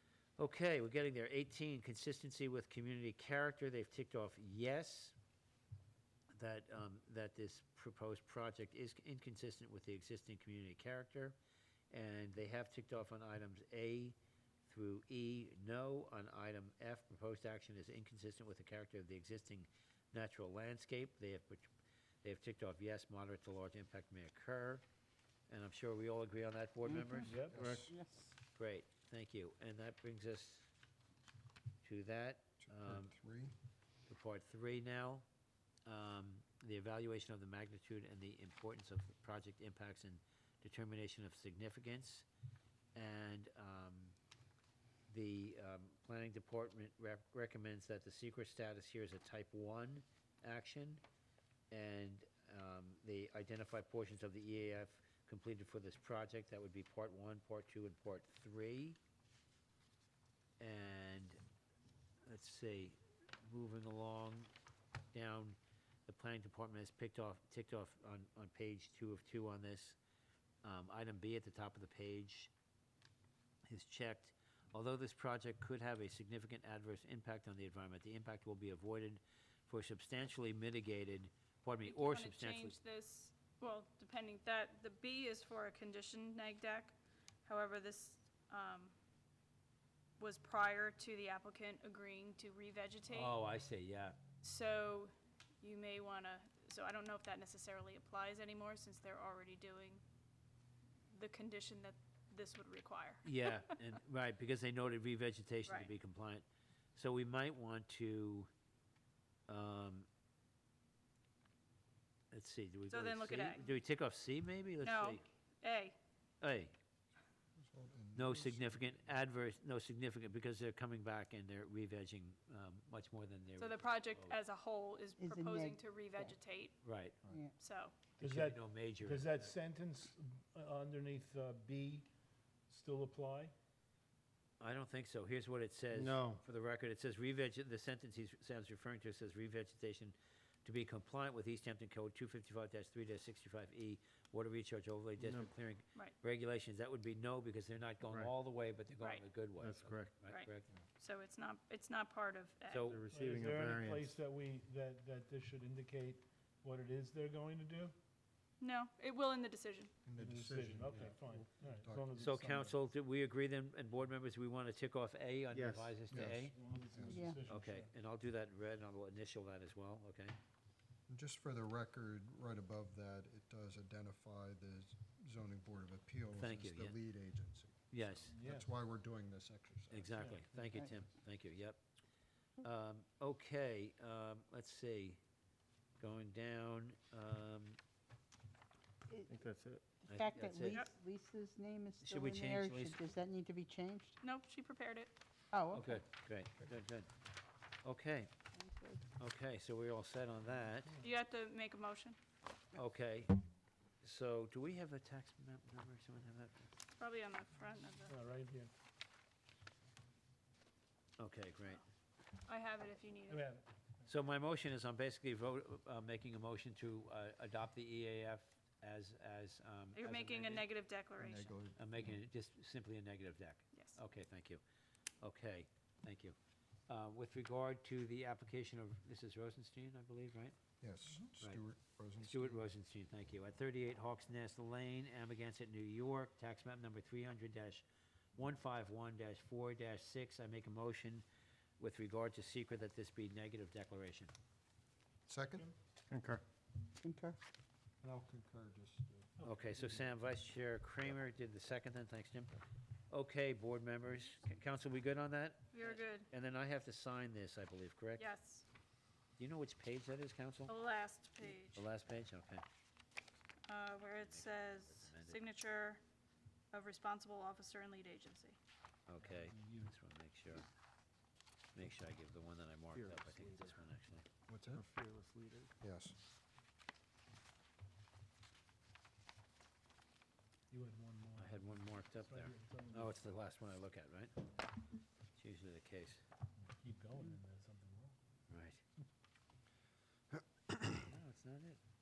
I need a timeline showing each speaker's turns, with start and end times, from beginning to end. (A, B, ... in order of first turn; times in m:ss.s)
0:00.4-0:05.1 A
0:06.3-0:11.4 A
0:11.9-0:21.7 A
0:22.2-0:24.8 A
0:25.5-0:27.3 A
0:26.8-0:28.3 B
0:27.2-0:27.9 C
0:27.5-0:27.9 D
0:28.5-0:30.7 A
0:31.8-0:33.1 A
0:32.6-0:33.5 D
0:34.1-0:35.2 A
0:35.8-0:42.2 A
0:42.9-0:44.2 A
0:45.1-0:51.0 A
0:51.7-0:59.0 A
1:00.6-1:01.4 A
1:02.2-1:04.5 A
1:05.1-1:10.0 A
1:10.6-1:12.5 A
1:13.7-1:22.8 A
1:21.8-1:26.9 E
1:27.4-1:28.9 E
1:30.2-1:33.4 E
1:33.1-1:34.2 A
1:34.4-1:40.0 E
1:41.1-1:43.5 E
1:43.2-1:46.4 A
1:47.0-1:48.5 A
1:49.5-1:50.1 A
1:52.3-1:55.2 A
1:52.9-1:53.7 E
1:54.8-1:56.0 E
1:56.4-1:56.8 A
1:57.6-1:58.9 D
1:58.1-2:04.4 A
2:03.6-2:06.8 E
2:05.2-2:06.4 B
2:06.8-2:07.2 A
2:07.2-2:07.5 B
2:07.6-2:07.9 E
2:08.2-2:12.1 C
2:08.2-2:09.5 A
2:12.7-2:13.5 C
2:14.6-2:30.7 A
2:15.9-2:16.4 F
2:25.2-2:25.5 F
2:28.1-2:28.3 F
2:29.0-2:29.2 E
2:29.6-2:30.1 F
2:30.2-2:32.9 E
2:32.7-2:33.0 A
2:32.8-2:34.2 F
2:33.1-2:37.9 C
2:38.6-2:39.9 E
2:40.0-2:42.2 D
2:40.2-2:42.8 C
2:42.2-2:46.5 A
2:45.5-2:46.0 F
2:46.1-2:47.3 D
2:46.4-2:47.9 C
2:47.1-2:47.4 B
2:47.4-2:50.4 A
2:51.1-3:00.3 D
2:56.3-2:57.0 A
2:57.9-2:58.3 A
2:58.3-2:58.7 C
2:59.9-3:01.8 A
3:00.1-3:00.8 C
3:02.6-3:05.2 A
3:06.0-3:07.8 A
3:09.3-3:09.9 F
3:10.0-3:14.2 B
3:10.1-3:10.8 A
3:10.7-3:10.9 E
3:12.0-3:13.1 A
3:14.2-3:15.1 E
3:15.5-3:16.0 B
3:15.7-3:17.1 A
3:17.8-3:18.3 A
3:18.5-3:19.0 B
3:19.2-3:20.9 A
3:21.0-3:22.2 E
3:22.7-3:23.3 A
3:24.0-3:26.7 A
3:27.0-3:28.1 E
3:28.1-3:28.7 C
3:31.2-3:31.8 A
3:32.4-3:33.4 E
3:33.3-3:33.6 C
3:34.1-3:40.6 A
3:39.9-3:41.5 E
3:41.2-3:42.2 D
3:41.8-3:44.6 A
3:43.7-3:44.0 E
3:45.2-3:46.4 A
3:46.9-3:50.6 A
3:50.8-3:52.7 D
3:52.2-3:57.8 A
3:58.4-4:01.2 A
4:01.8-4:04.3 A
4:05.3-4:05.7 D
4:06.1-4:06.4 F
4:07.0-4:07.4 B
4:08.0-4:09.3 D
4:09.4-4:10.0 C
4:09.4-4:18.3 A
4:15.7-4:16.3 E
4:18.2-4:18.6 E
4:19.4-4:20.7 A
4:20.7-4:21.8 E
4:21.7-4:22.6 A
4:23.6-4:26.0 E
4:24.1-4:25.4 A
4:26.7-4:28.6 E
4:29.1-4:30.6 A
4:29.2-4:29.9 C
4:31.7-4:34.2 A
4:32.9-4:33.8 F
4:34.5-4:34.8 D
4:34.7-4:35.7 F
4:35.8-4:36.2 D
4:40.7-4:43.2 C
4:41.4-4:44.3 A
4:45.4-4:46.2 A
4:46.6-4:48.1 C
4:48.5-4:48.8 A
4:51.0-4:51.8 A